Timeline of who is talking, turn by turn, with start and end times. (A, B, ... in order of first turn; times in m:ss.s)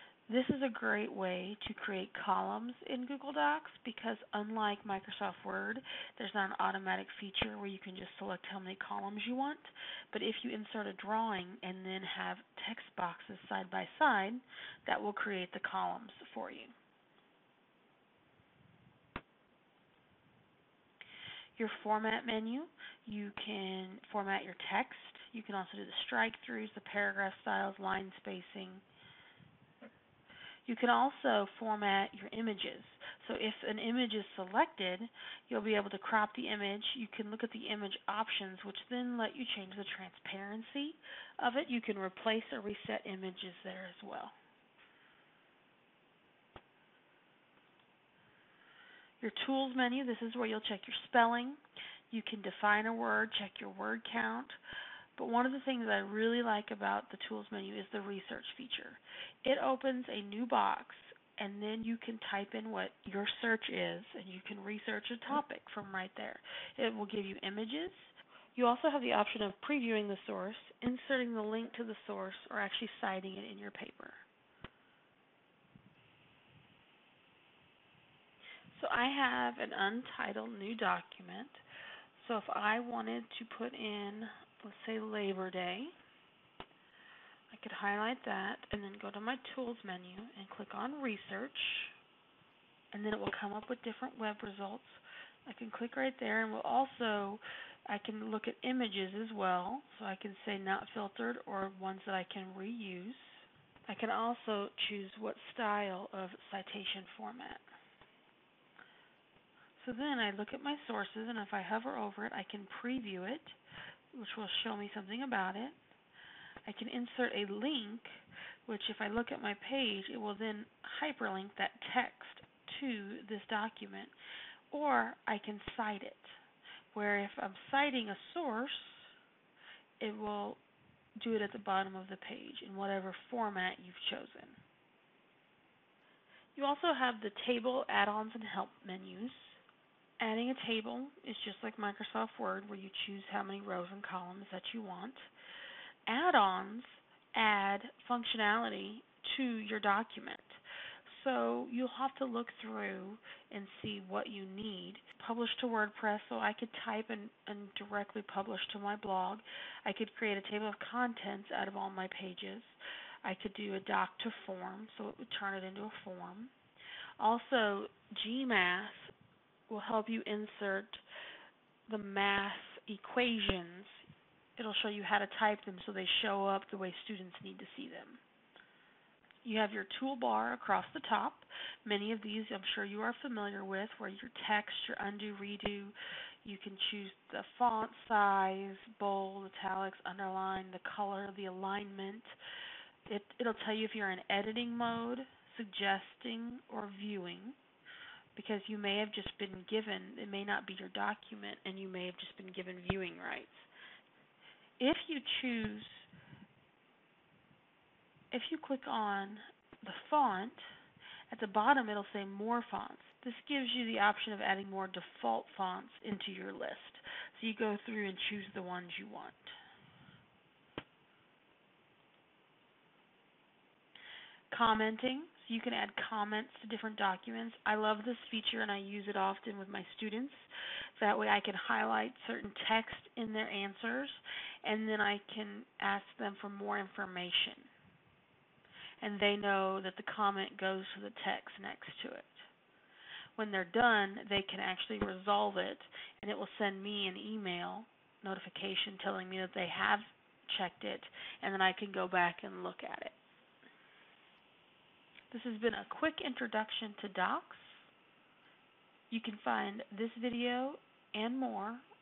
0:00.3-0:16.7 A
0:21.6-0:28.8 A
0:30.6-0:44.3 A
0:49.2-0:51.6 A
0:52.1-0:54.6 A
0:55.2-1:14.2 A
1:18.7-1:21.6 A
1:22.2-1:25.9 A
1:27.5-1:31.9 A
1:32.9-1:47.6 A
1:49.8-1:53.6 A
1:54.1-1:55.8 A
1:56.6-2:04.1 A
2:04.7-2:06.4 A
2:06.9-2:09.1 A
2:10.0-2:10.6 A
2:11.2-2:14.6 A
2:16.6-2:19.6 A
2:20.2-2:25.3 A
2:26.1-2:46.5 A
2:47.2-2:49.1 A
2:49.7-2:51.0 A
2:51.9-2:54.0 A
2:54.6-2:58.2 A
2:59.4-3:12.3 A
3:13.1-3:17.6 A
3:18.3-3:23.7 A
3:24.8-3:26.1 A
3:28.3-3:30.7 A
3:31.3-3:39.6 A
3:44.5-3:50.4 A
3:51.0-3:57.7 A
3:59.0-4:02.5 A
4:03.4-4:13.1 A
4:15.3-4:17.8 A
4:19.1-4:21.8 A